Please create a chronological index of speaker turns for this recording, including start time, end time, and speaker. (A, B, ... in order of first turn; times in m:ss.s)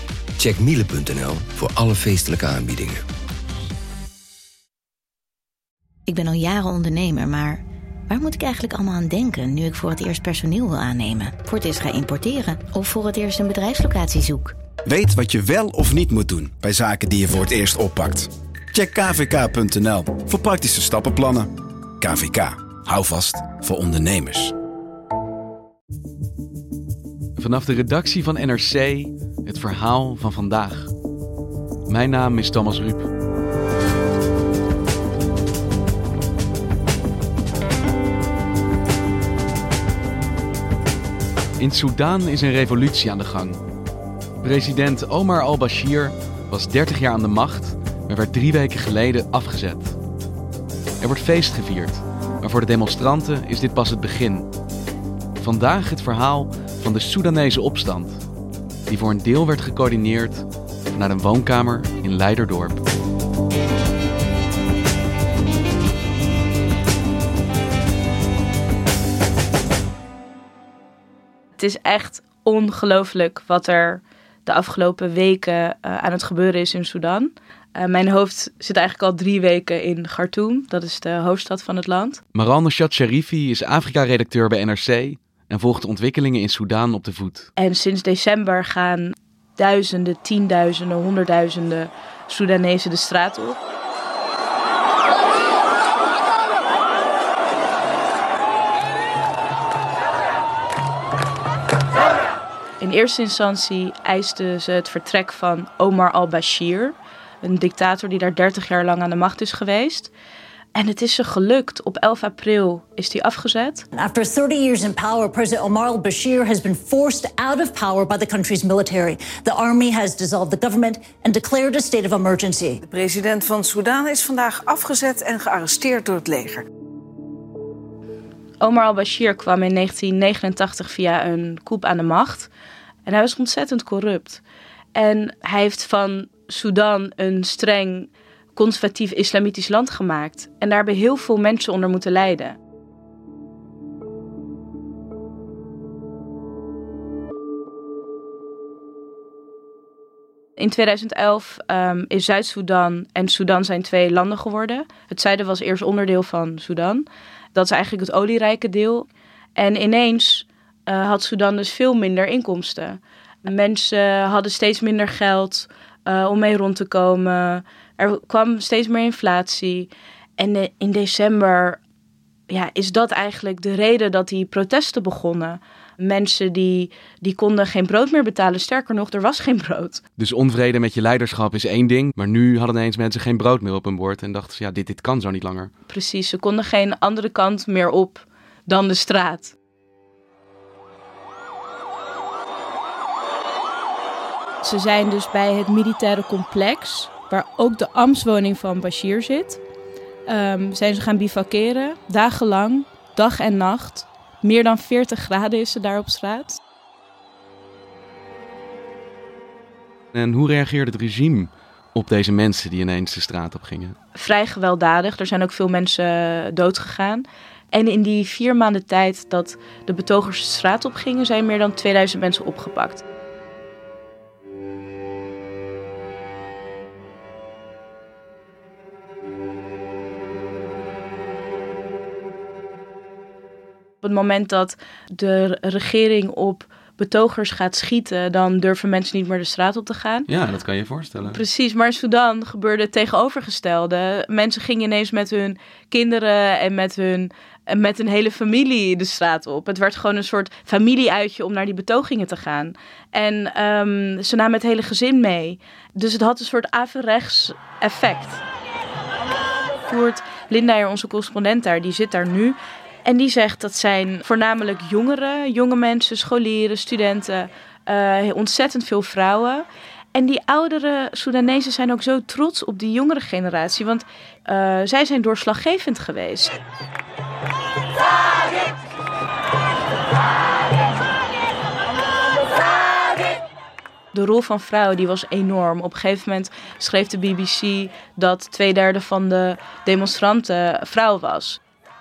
0:00.4-0:03.0 A
0:06.1-0:14.5 B
0:14.9-0:24.5 C
0:27.4-0:30.9 D
0:31.9-0:33.1 D
0:41.6-0:43.6 D
0:44.4-0:50.0 D
0:51.0-0:54.5 D
0:55.4-0:58.2 D
0:58.9-1:02.8 D
1:11.6-1:22.2 E
1:22.3-1:27.5 D
1:27.6-1:33.6 E
1:42.8-1:50.1 E
1:50.8-1:53.8 E
1:53.9-2:02.8 F
2:02.9-2:06.6 G
2:08.6-2:12.5 E
2:13.1-2:14.4 E
2:15.0-2:22.6 E
2:30.6-2:51.8 E
2:52.5-3:00.0 E
3:00.2-3:05.7 D
3:05.9-3:09.5 E
3:14.6-3:19.6 E
3:20.3-3:26.6 E
3:30.1-3:34.0 D
3:34.2-3:43.0 E
3:54.0-4:00.3 E
4:00.3-4:01.4 D
4:01.3-4:18.4 E
4:19.9-4:36.6 E
4:44.1-4:51.6 E